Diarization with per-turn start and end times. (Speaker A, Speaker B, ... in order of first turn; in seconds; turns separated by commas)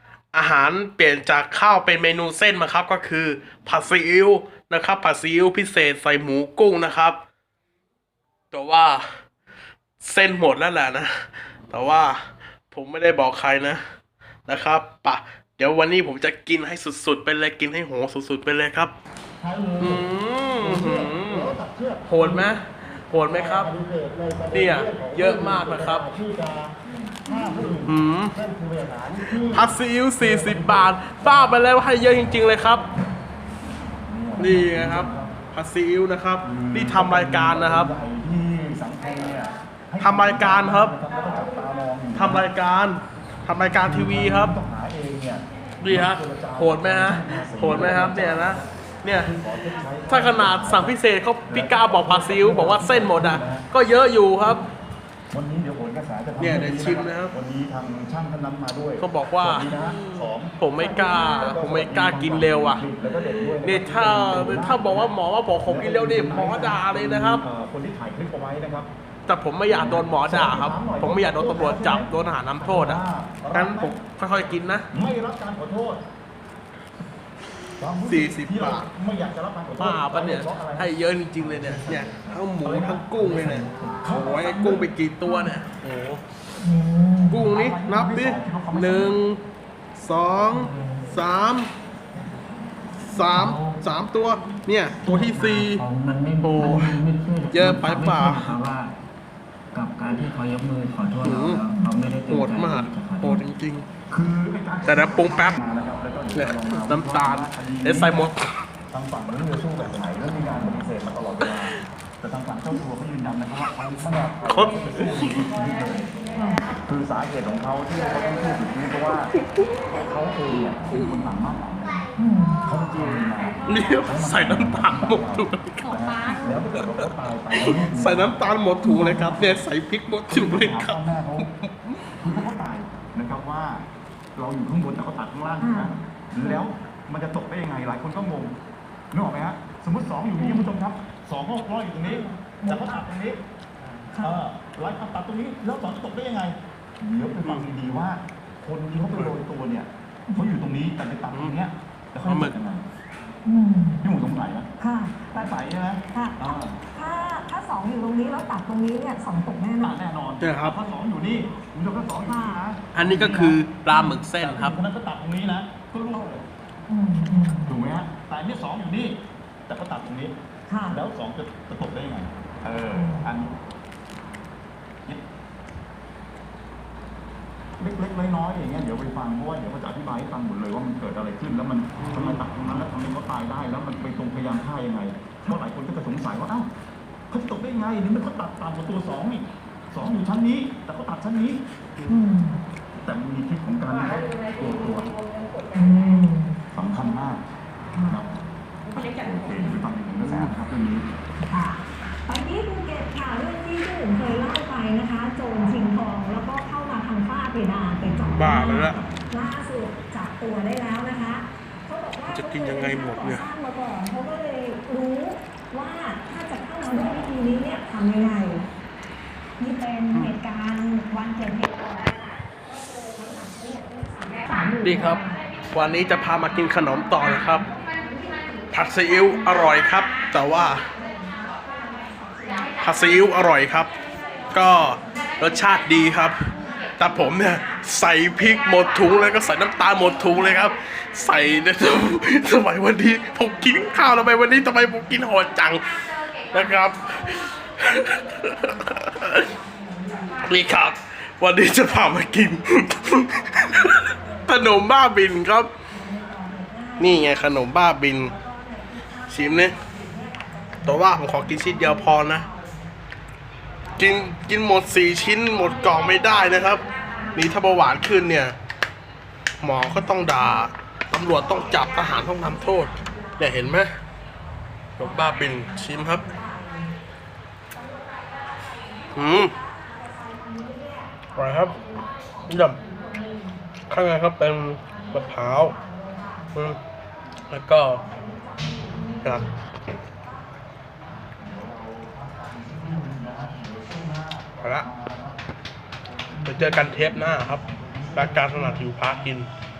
Speaker A: 0.3-7.2, Speaker A: 8.5-9.1, Speaker A: 10.0-13.8, Speaker A: 14.5-18.9, Speaker B: 19.4-20.1, Speaker A: 19.8-23.7, Speaker B: 20.6-22.5, Speaker B: 23.3-32.8, Speaker A: 24.5-26.1, Speaker C: 27.3-27.6, Speaker A: 27.9-28.3, Speaker A: 29.2-32.8, Speaker B: 34.0-35.4, Speaker A: 34.4-37.9, Speaker B: 36.4-42.5, Speaker A: 40.0-41.0, Speaker A: 42.1-44.5, Speaker B: 43.8-53.7, Speaker A: 45.8-49.3, Speaker A: 50.1-54.6, Speaker B: 55.3-68.9, Speaker A: 56.4-57.3, Speaker A: 59.0-67.5, Speaker A: 69.3-74.9, Speaker B: 69.7-74.0, Speaker B: 74.9-76.0, Speaker B: 77.8-83.2, Speaker A: 78.0-78.9, Speaker A: 79.8-86.2, Speaker D: 83.2-84.1, Speaker B: 84.0-84.9, Speaker C: 85.2-85.6, Speaker C: 86.6-87.5, Speaker A: 87.3-89.4, Speaker B: 87.5-89.2, Speaker A: 90.0-91.7, Speaker D: 90.5-91.0, Speaker A: 93.1-95.8, Speaker D: 93.3-93.8, Speaker D: 95.0-98.9, Speaker A: 96.4-98.6, Speaker D: 99.7-103.4, Speaker A: 101.2-101.7, Speaker A: 102.3-103.9, Speaker B: 104.1-108.3, Speaker A: 104.8-105.6, Speaker A: 106.3-108.5, Speaker B: 108.9-116.1, Speaker A: 111.4-111.7, Speaker A: 114.5-115.4, Speaker C: 116.4-116.6, Speaker B: 116.9-119.3, Speaker B: 119.9-122.0, Speaker A: 120.9-121.2, Speaker C: 122.2-122.6, Speaker B: 122.7-129.7, Speaker A: 123.7-126.0, Speaker A: 126.5-132.1, Speaker C: 128.8-129.3, Speaker B: 130.3-131.5, Speaker B: 132.2-138.5, Speaker C: 135.6-136.6, Speaker B: 139.1-143.4, Speaker C: 140.4-140.7, Speaker C: 142.1-143.0, Speaker C: 144.1-144.4, Speaker B: 144.2-152.8, Speaker A: 151.3-151.6, Speaker A: 152.2-152.6, Speaker C: 153.4-154.0, Speaker B: 154.0-154.7, Speaker C: 154.8-155.5, Speaker B: 155.3-156.8, Speaker C: 156.1-160.0, Speaker B: 159.8-163.6, Speaker A: 160.4-160.8, Speaker C: 162.3-162.6, Speaker A: 162.9-164.8, Speaker C: 163.9-164.2, Speaker B: 164.4-166.5, Speaker C: 166.9-167.7, Speaker B: 167.7-170.3, Speaker C: 170.7-171.0, Speaker B: 170.9-173.5, Speaker C: 172.9-173.3, Speaker B: 177.8-186.7, Speaker A: 182.0-182.4, Speaker B: 187.3-191.6, Speaker C: 192.1-192.6, Speaker B: 193.0-195.2, Speaker C: 195.7-196.6, Speaker B: 196.7-197.4, Speaker C: 197.9-198.2, Speaker B: 198.1-198.3, Speaker B: 198.9-201.1, Speaker C: 201.5-218.7, Speaker A: 208.3-209.0, Speaker B: 208.7-209.2, Speaker A: 212.3-213.4, Speaker C: 219.6-225.4, Speaker A: 224.8-225.2, Speaker A: 225.7-227.7, Speaker C: 226.9-228.6, Speaker A: 228.7-230.8, Speaker C: 230.8-233.0, Speaker A: 232.8-233.9, Speaker A: 234.5-249.5, Speaker C: 243.6-245.3, Speaker C: 246.7-250.7, Speaker A: 250.4-255.7, Speaker C: 252.0-252.3, Speaker C: 252.8-254.6, Speaker C: 255.9-257.5, Speaker A: 257.0-258.3, Speaker C: 258.1-262.9, Speaker A: 259.3-259.8, Speaker A: 260.8-262.5, Speaker A: 264.0-266.8, Speaker C: 264.2-268.1, Speaker A: 267.3-268.6, Speaker A: 269.6-274.0, Speaker C: 269.8-270.7, Speaker C: 271.2-273.8, Speaker A: 275.0-276.2, Speaker C: 275.0-276.9, Speaker C: 277.7-283.6, Speaker A: 279.1-279.5, Speaker A: 281.4-281.8, Speaker A: 282.5-282.8, Speaker A: 283.9-285.8, Speaker C: 284.9-286.5, Speaker A: 287.5-288.0, Speaker C: 287.9-289.5, Speaker C: 290.2-290.4, Speaker B: 291.2-295.4, Speaker A: 294.6-294.9, Speaker B: 296.3-299.0, Speaker A: 296.4-297.6, Speaker A: 298.1-299.5